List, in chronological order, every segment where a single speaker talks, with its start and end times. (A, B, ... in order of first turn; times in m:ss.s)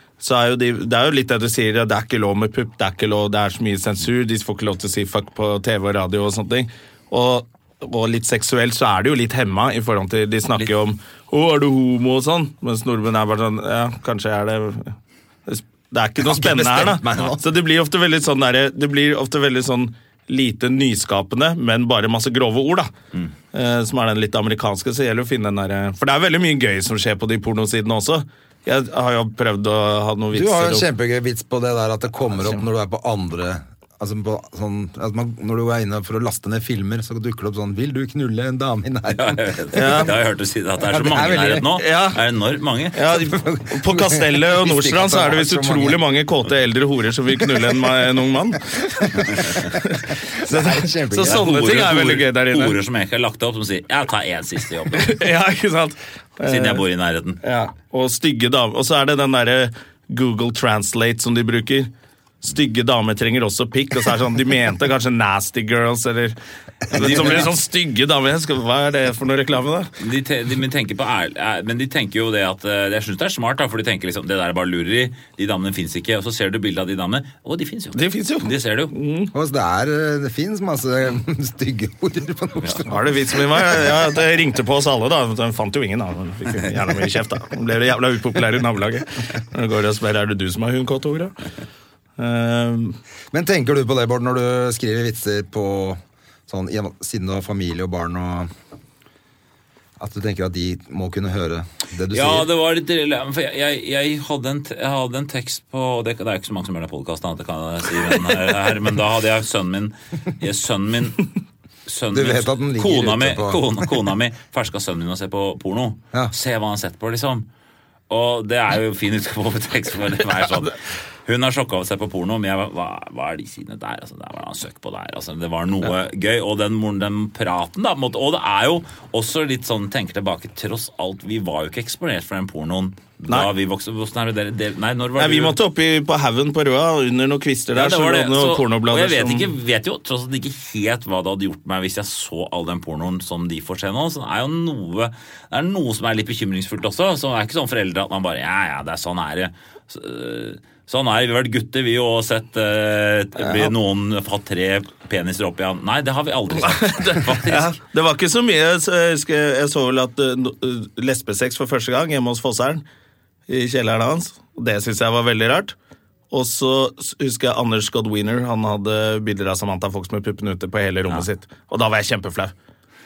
0:00.2-0:15.0 A
0:15.5-0:22.9 A
0:16.2-0:17.4 B
0:23.5-0:30.9 A
0:30.3-0:39.4 B
0:39.1-0:43.0 C
0:39.7-0:40.1 A
0:40.8-0:41.7 B
0:41.7-0:42.2 A
0:43.0-0:48.7 A
0:43.1-0:46.0 B
0:49.0-0:49.6 B
0:49.7-0:52.8 A
0:50.4-0:51.6 B
0:51.2-0:55.2 C
0:54.9-0:56.8 A
0:56.5-0:57.4 C
0:57.4-1:01.9 A
1:02.4-1:06.4 A
1:06.9-1:09.9 A
1:06.9-1:07.5 C
1:10.0-1:18.9 C
1:17.9-1:19.3 A
1:19.3-1:23.1 B
1:22.9-1:31.4 A
1:32.2-1:33.0 A
1:33.3-1:38.5 B
1:40.0-1:42.5 B
1:42.1-1:51.3 C
1:51.9-1:57.5 C
1:52.1-1:53.6 B
1:58.1-2:15.6 C
2:15.2-2:19.5 A
2:17.7-2:37.8 C
2:36.6-2:42.8 A
2:43.5-2:45.8 A
2:46.3-2:52.5 A